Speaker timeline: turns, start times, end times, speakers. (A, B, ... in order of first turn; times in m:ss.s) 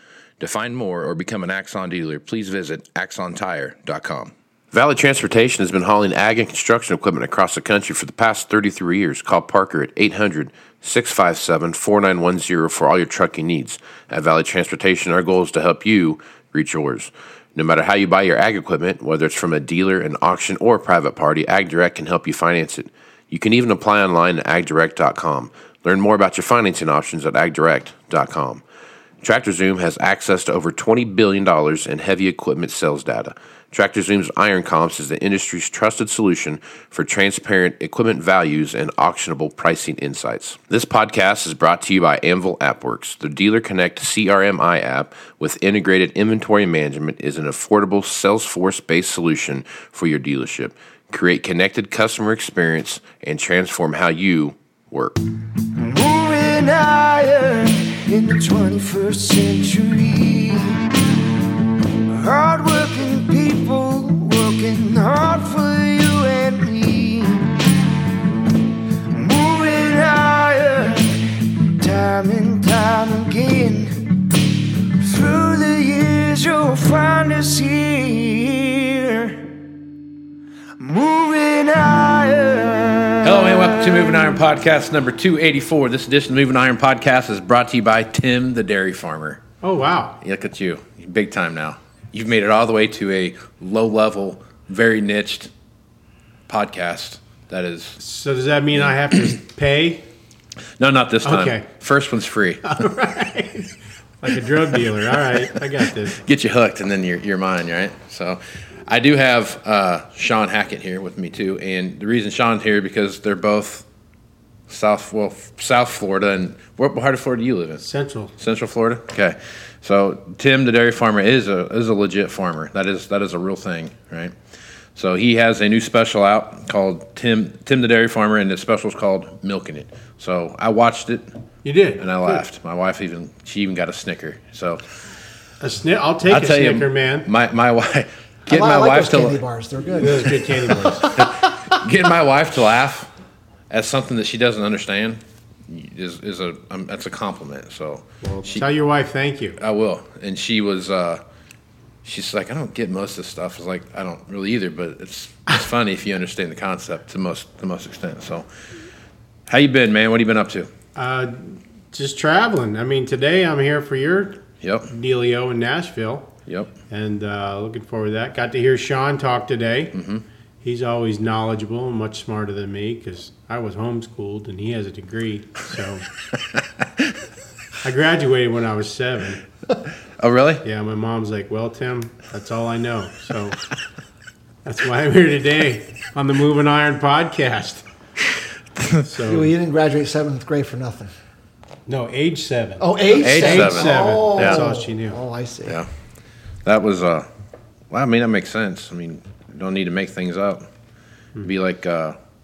0:00.4-0:28.6 A
0:29.2-0:55.2 A
0:55.6-1:01.0 B
1:02.1-1:07.7 B
1:08.9-1:19.6 B
1:20.8-1:24.1 B
1:23.2-1:29.4 A
1:29.6-1:30.2 C
1:30.2-1:35.5 A
1:36.5-1:38.0 A
1:38.0-1:40.0 C
1:38.8-1:39.2 A
1:40.8-1:42.8 A
1:41.2-1:41.7 C
1:42.6-1:46.2 C
1:44.9-1:53.8 A
1:54.7-1:57.8 A
1:57.8-1:58.3 C
1:58.4-2:04.3 A
2:04.9-2:11.3 A
2:11.6-2:12.4 C
2:12.0-2:15.1 A
2:15.6-2:17.3 C
2:16.2-2:19.4 A
2:18.5-2:21.3 D
2:20.0-2:21.1 C
2:21.0-2:23.1 A
2:23.7-2:28.6 A
2:28.2-2:29.6 C
2:29.6-2:31.2 A
2:32.0-2:38.5 A
2:39.5-2:40.7 A
2:41.0-2:46.3 C
2:44.6-2:44.9 A
2:46.9-2:50.0 C
2:49.9-2:50.2 A
2:50.6-2:56.0 C
2:57.8-2:59.4 C
3:00.2-3:00.6 A
3:00.6-3:03.6 C
3:04.6-3:07.8 C
3:09.0-3:09.5 C
3:09.2-3:11.1 D
3:11.9-3:15.2 C
3:12.8-3:15.8 D
3:13.2-3:14.6 A
3:16.6-3:17.3 A
3:17.9-3:20.7 A
3:21.4-3:22.2 A